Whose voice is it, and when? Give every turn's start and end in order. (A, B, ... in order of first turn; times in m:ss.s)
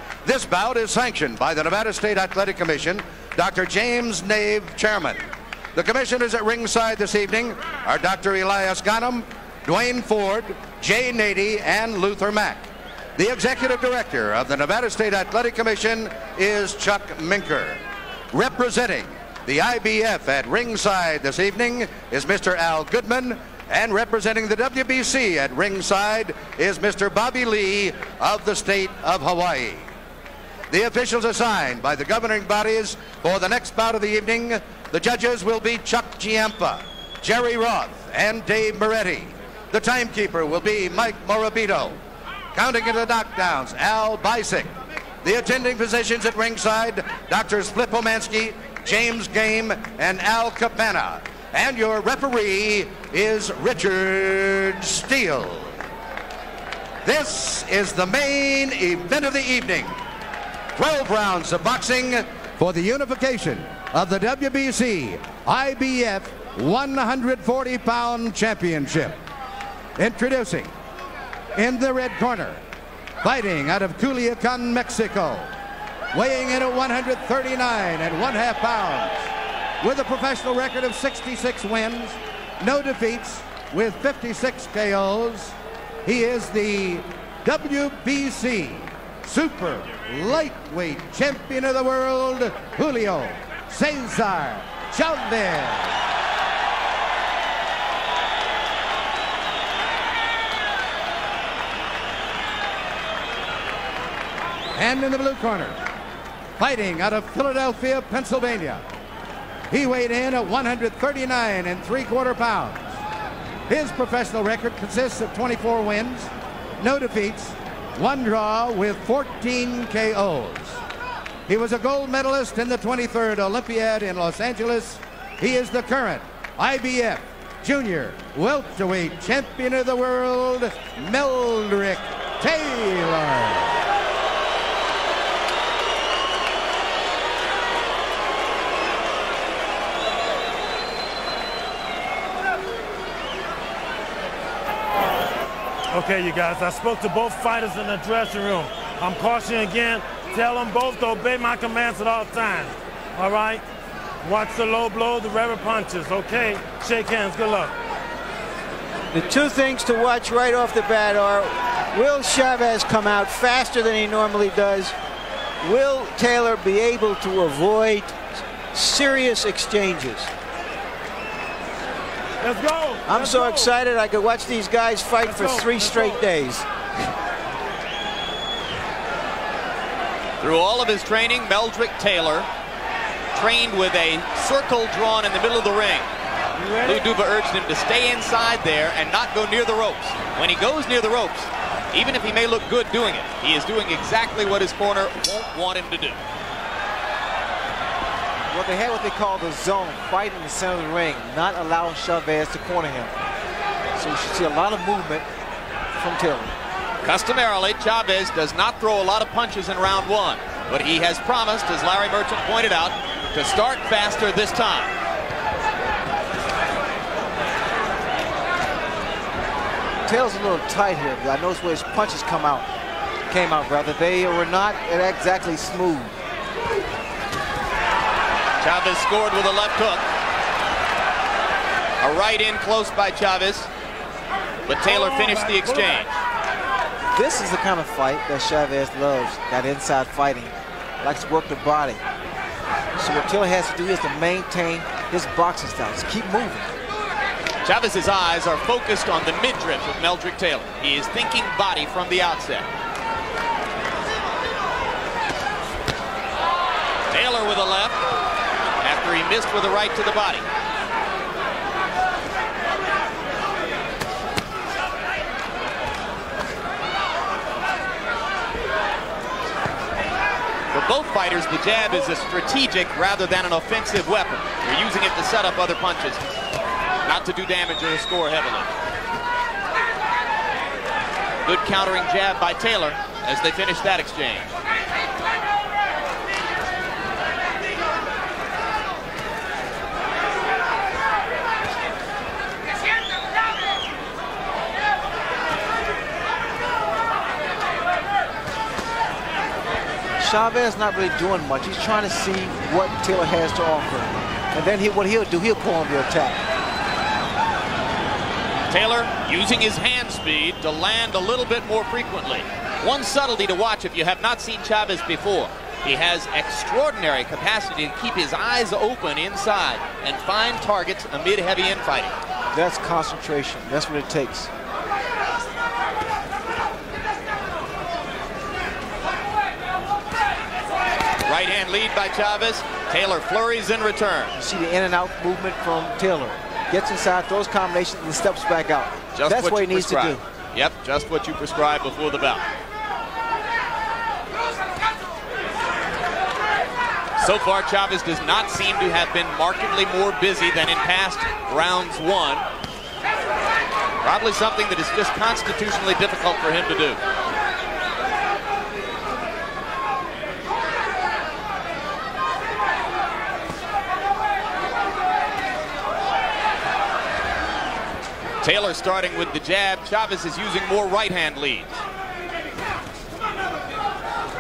0:00.2-0:05.2 A
0:05.8-0:12.6 A
0:13.2-0:17.8 A
0:18.3-0:29.8 A
0:30.7-0:42.0 A
0:42.5-0:55.8 A
0:57.0-1:00.0 A
1:00.8-1:09.2 A
1:10.0-1:10.7 A
1:11.6-1:12.6 A
1:13.2-1:15.5 A
1:16.1-1:19.3 A
1:19.8-1:25.5 A
1:26.0-1:36.0 A
1:44.8-1:45.8 A
1:46.6-1:48.8 A
1:49.7-1:52.8 A
1:53.7-2:00.8 A
2:01.5-2:13.8 A
2:25.9-2:33.6 B
2:34.2-2:37.8 B
2:39.1-2:44.9 C
2:45.6-2:48.2 C
2:48.7-2:50.3 C
2:52.4-2:53.7 B
2:53.1-2:56.7 C
2:55.2-2:56.3 B
3:00.4-3:02.5 D
3:03.3-3:06.1 D
3:06.8-3:16.2 D
3:18.5-3:23.1 E
3:24.0-3:25.3 E
3:26.0-3:26.5 E
3:27.0-3:34.9 D
3:40.0-3:42.7 E
3:43.3-3:46.1 E
3:48.6-3:50.1 D
3:52.0-3:53.7 D
3:54.7-3:56.2 D
3:54.8-3:56.1 B
3:57.1-4:02.0 E
4:03.0-4:06.7 E
4:07.6-4:12.7 D
4:17.1-4:18.0 D
4:18.8-4:20.5 D
4:30.7-4:36.3 D
4:37.1-4:38.7 D
4:41.4-4:44.5 D
5:00.2-5:06.4 E
5:08.7-5:22.2 D
5:22.5-5:24.5 E
5:31.2-5:34.3 D
5:34.4-5:40.2 E
5:39.2-5:42.4 D
5:47.2-5:52.5 D
5:54.0-5:57.0 D
6:08.4-6:11.8 D